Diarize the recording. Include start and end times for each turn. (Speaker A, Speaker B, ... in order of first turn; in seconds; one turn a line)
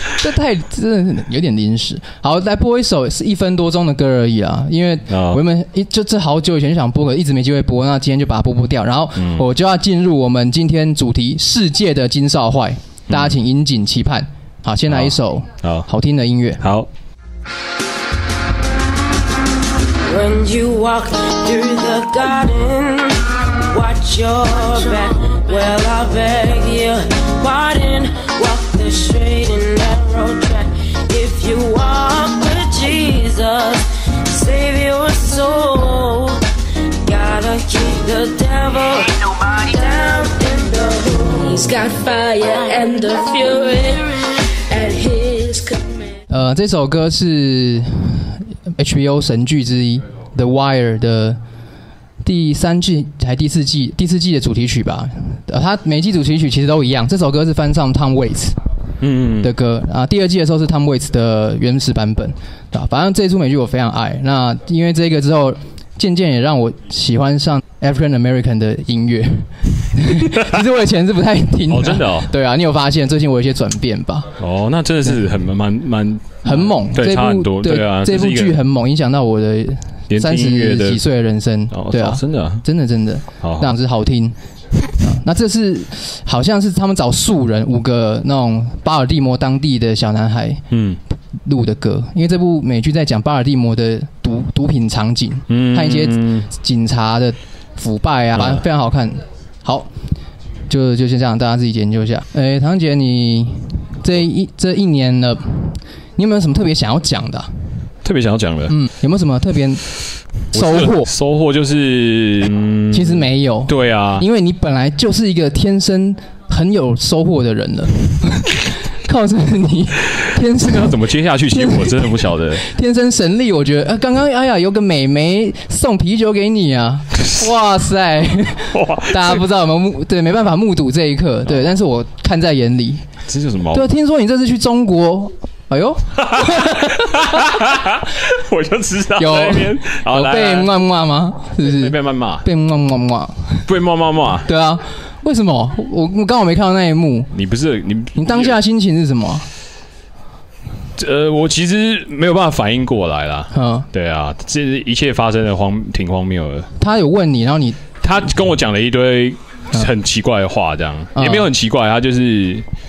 Speaker A: 0.2-16.6
Speaker B: 5.1-5.4
Speaker B: 9.2-9.4
Speaker B: 13.1-13.4
Speaker B: 14.9-15.9
Speaker B: 16.6-16.9
Speaker C: 20.1-36.4
Speaker C: 37.0-46.1
Speaker A: 46.3-51.4
Speaker A: 52.2-58.6
Speaker B: 59.0-59.5
Speaker A: 59.4-74.3
Speaker B: 71.7-72.3
Speaker B: 74.4-78.6
Speaker A: 76.4-90.6
Speaker B: 80.1-81.0
Speaker B: 81.7-82.6
Speaker B: 83.4-83.7
Speaker B: 90.7-91.0
Speaker A: 91.5-99.9
Speaker B: 95.5-96.5
Speaker B: 98.3-98.6
Speaker A: 100.7-107.5
Speaker B: 108.0-108.7
Speaker A: 108.7-109.8
Speaker A: 110.5-111.1
Speaker B: 110.5-114.2
Speaker A: 112.9-120.9
Speaker B: 120.6-122.6
Speaker A: 121.5-122.1
Speaker A: 122.6-133.0
Speaker B: 128.7-129.4
Speaker B: 133.3-133.8
Speaker A: 133.7-137.2
Speaker B: 136.3-140.7
Speaker A: 139.2-143.6
Speaker B: 141.6-142.4
Speaker B: 143.7-144.5
Speaker A: 144.4-147.3
Speaker B: 147.3-148.6
Speaker A: 148.2-149.4
Speaker B: 150.9-156.7
Speaker A: 153.5-153.8
Speaker A: 156.8-157.8
Speaker B: 158.0-162.7
Speaker A: 161.2-161.4